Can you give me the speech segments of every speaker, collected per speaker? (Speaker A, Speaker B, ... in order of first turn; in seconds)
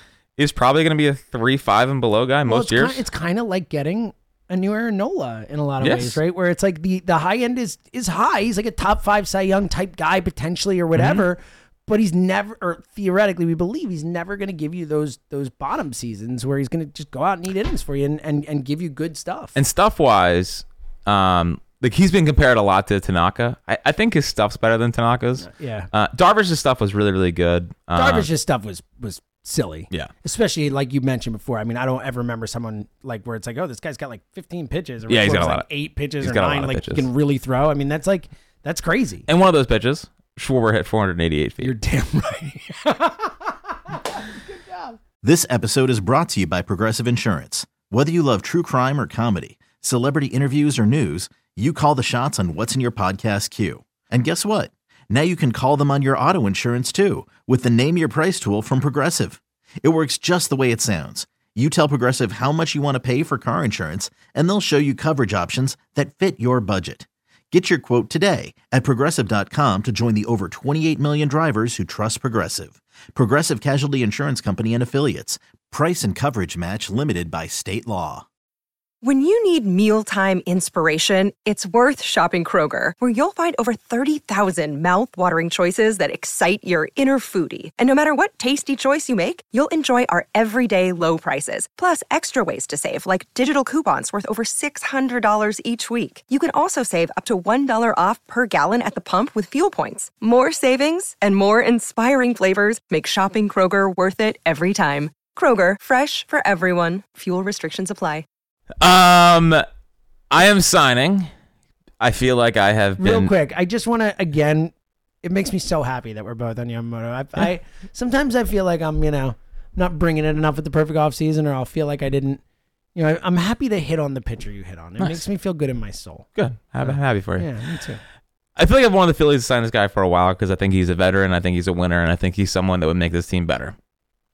Speaker A: 0.4-3.0, 5.8-6.2, 10.9-11.2, 19.6-28.3, 35.1-35.7, 36.2-37.1, 39.3-41.7, 108.8-109.6, 110.3-111.3, 112.0-113.3, 126.4-127.5, 128.6-133.8
Speaker B: 2.5-19.6, 25.4-25.9, 27.9-39.3, 41.6-45.0, 113.0-122.4, 123.0-126.3, 126.8-128.0
Speaker C: 45.2-78.2
Speaker D: 79.0-108.2